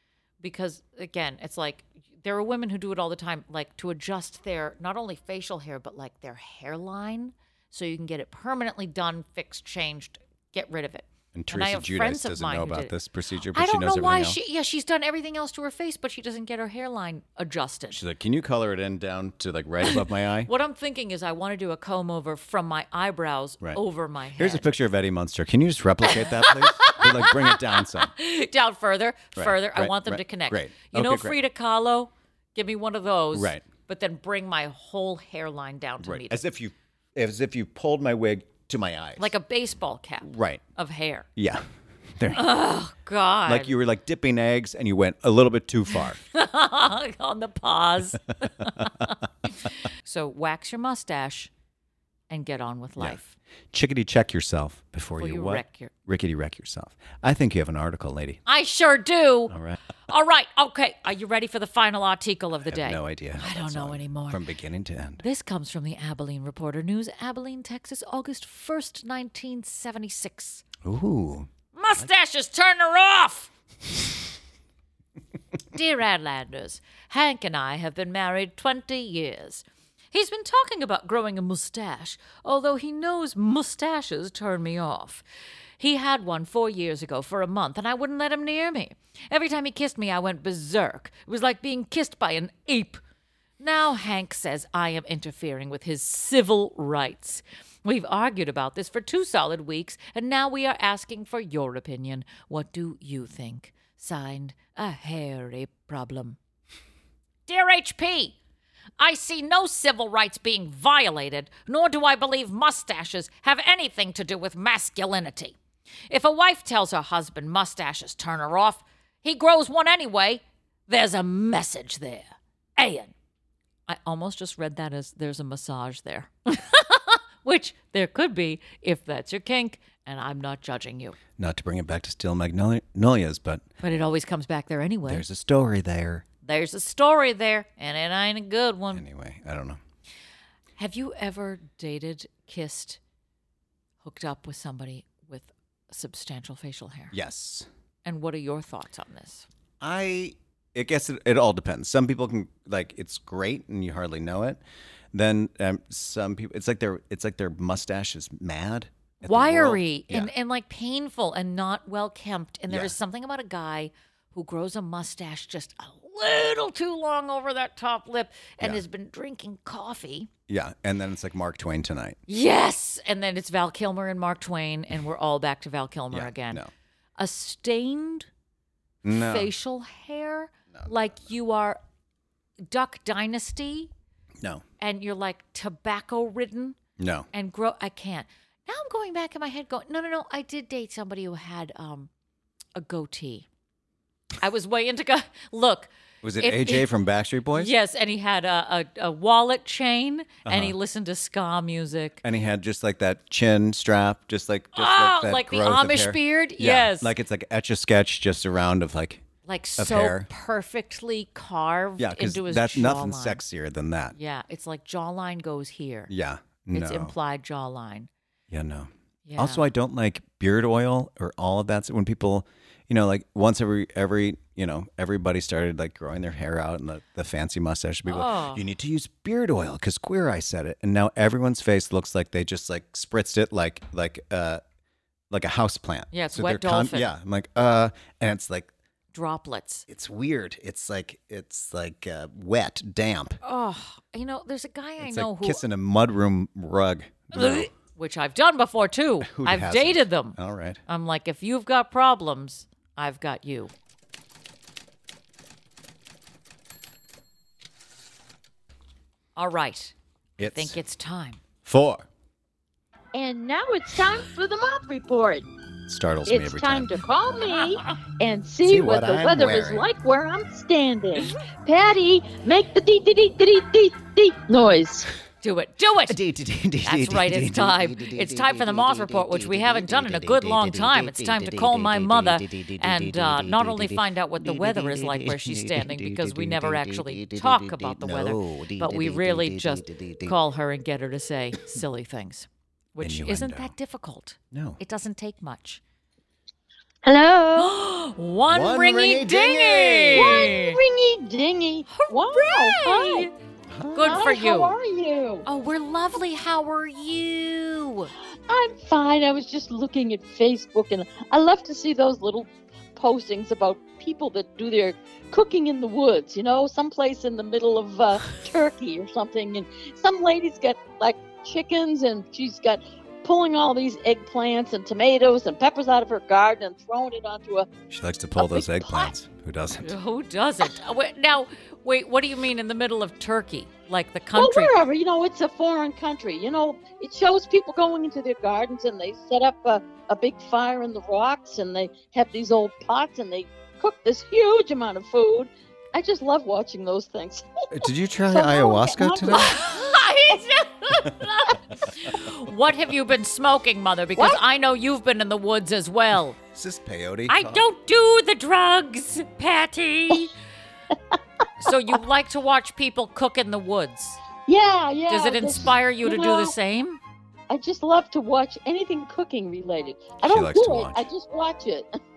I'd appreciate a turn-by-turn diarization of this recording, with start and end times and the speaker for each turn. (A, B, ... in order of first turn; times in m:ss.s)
0:00.4-0:12.9 A
0:11.3-0:14.4 B
0:13.5-0:18.0 A
0:17.9-0:20.5 B
0:19.8-0:24.7 A
0:24.4-0:28.1 B
0:26.1-0:36.4 A
0:29.4-0:31.4 B
0:33.3-0:33.7 B
0:36.0-0:39.3 B
0:39.2-0:41.3 A
0:40.2-0:40.6 B
0:41.4-0:41.6 B
0:42.2-0:42.5 B
0:42.3-0:43.7 A
0:43.5-0:46.2 B
0:46.2-0:51.5 A
0:48.6-0:49.1 B
0:52.3-0:53.4 A
0:53.7-0:58.4 B
0:55.2-0:55.9 A
0:58.5-0:59.5 A
0:59.5-0:59.8 B
1:00.1-1:04.4 A
1:02.6-1:05.2 B
1:05.2-1:10.6 A
1:10.8-1:12.1 B
1:11.7-1:13.5 A
1:15.7-1:25.2 A
1:25.8-1:33.0 A
1:33.6-1:46.4 A
1:47.5-1:48.4 A
1:49.0-1:55.6 A
1:56.1-2:03.1 A
2:03.9-2:11.2 A
2:11.4-2:13.6 B
2:13.8-2:15.2 A
2:15.1-2:16.2 B
2:16.4-2:19.0 A
2:18.9-2:19.8 B
2:20.8-2:23.0 A
2:24.0-2:27.1 A
2:27.1-2:27.7 B
2:28.0-2:29.5 A
2:29.8-2:34.6 B
2:35.1-2:40.3 B
2:39.2-2:50.3 A
2:42.7-2:43.0 B
2:50.5-2:52.2 B
2:52.3-2:56.6 A
2:56.1-2:56.7 B
2:57.2-2:58.3 A
2:59.0-2:59.5 B
2:59.1-3:01.8 A
3:02.7-3:03.9 A
3:04.8-3:06.8 A
3:07.0-3:07.3 B
3:07.3-3:12.1 A
3:12.8-3:13.5 A
3:14.4-3:16.9 A
3:16.2-3:17.7 B
3:17.5-3:22.2 A
3:20.4-3:20.8 B
3:22.2-3:29.2 B
3:24.7-3:27.1 A
3:29.5-3:33.4 A
3:29.8-3:30.3 B
3:32.0-3:34.2 B
3:34.1-3:36.1 A
3:36.1-3:37.1 B
3:36.7-3:38.1 A
3:38.5-3:54.6 B
3:39.3-3:39.7 A
3:48.1-3:48.6 A
3:55.3-3:58.7 B
3:56.1-3:57.1 A
3:59.1-3:59.9 A
3:59.9-4:03.4 B
4:03.4-4:05.6 A
4:05.0-4:07.7 B
4:07.3-4:13.7 A
4:09.2-4:10.8 B
4:19.4-4:19.9 A
4:20.4-4:20.8 B
4:20.5-4:21.4 A
4:21.6-4:22.1 B
4:23.1-4:25.5 C
4:25.9-4:27.0 B
4:26.3-4:35.1 C
4:28.6-4:29.9 B
4:35.4-4:36.2 A
4:36.1-4:50.4 B
4:36.8-4:55.8 A
4:53.0-4:53.7 B
4:54.5-4:54.8 B
4:57.0-4:57.7 C
4:57.6-5:00.8 A
4:58.5-5:00.5 B
5:00.2-5:03.3 C
5:01.9-5:03.3 A
5:03.7-5:04.3 B
5:03.9-5:04.8 A
5:04.0-5:05.5 C
5:05.4-5:08.1 A
5:08.5-5:27.7 C
5:27.9-5:30.0 B
5:28.4-5:29.1 C
5:29.8-5:34.8 A
5:34.4-5:49.6 C
5:47.7-5:49.6 B
5:49.3-5:56.4 A
5:56.5-5:57.6 B
5:57.3-6:00.3 A
6:01.6-6:04.2 A
6:04.5-6:06.5 C
6:05.1-6:07.0 A
6:07.5-6:11.9 C
6:10.2-6:11.1 B